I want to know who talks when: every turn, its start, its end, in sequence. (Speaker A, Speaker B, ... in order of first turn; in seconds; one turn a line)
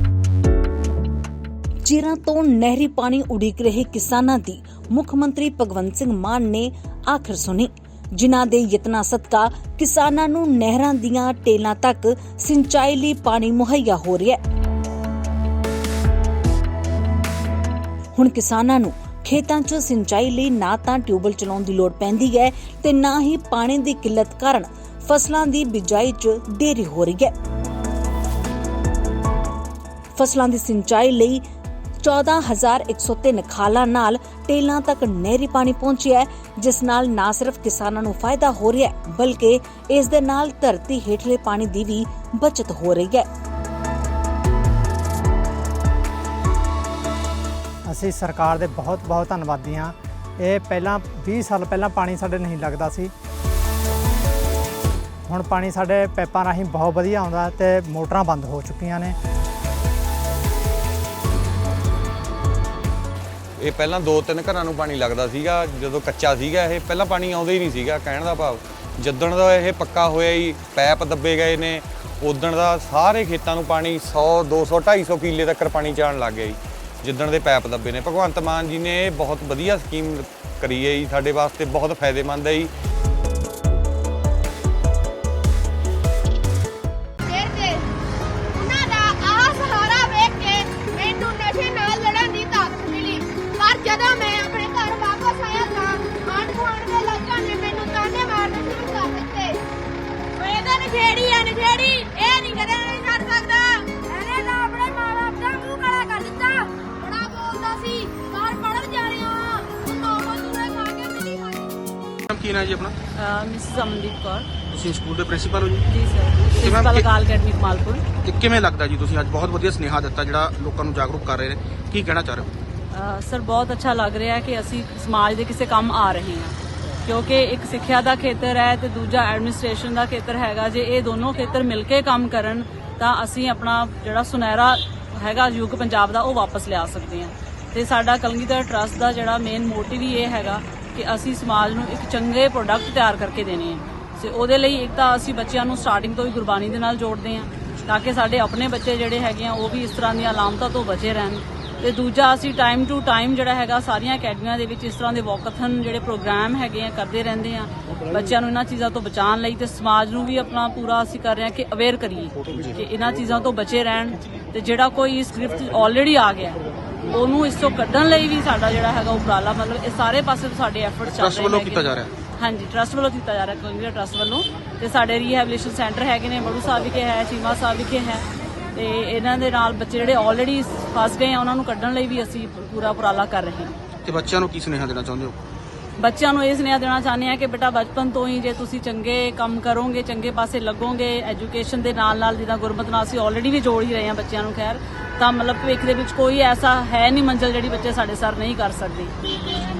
Speaker A: 1.8-14.4
Speaker A: 18.1-27.3
Speaker A: 30.1-31.4
Speaker A: 32.0-43.3
Speaker B: 47.9-53.1
Speaker B: 55.3-59.1
Speaker C: 63.6-82.7
Speaker D: 88.5-99.4
Speaker D: 100.4-111.7
Speaker E: 112.3-112.9
Speaker F: 113.1-114.5
Speaker E: 114.7-115.8
Speaker F: 115.8-118.0
Speaker E: 116.6-117.0
Speaker E: 118.2-122.5
Speaker F: 122.9-183.7
Speaker E: 171.1-172.1
Speaker E: 184.0-185.4
Speaker F: 186.0-199.1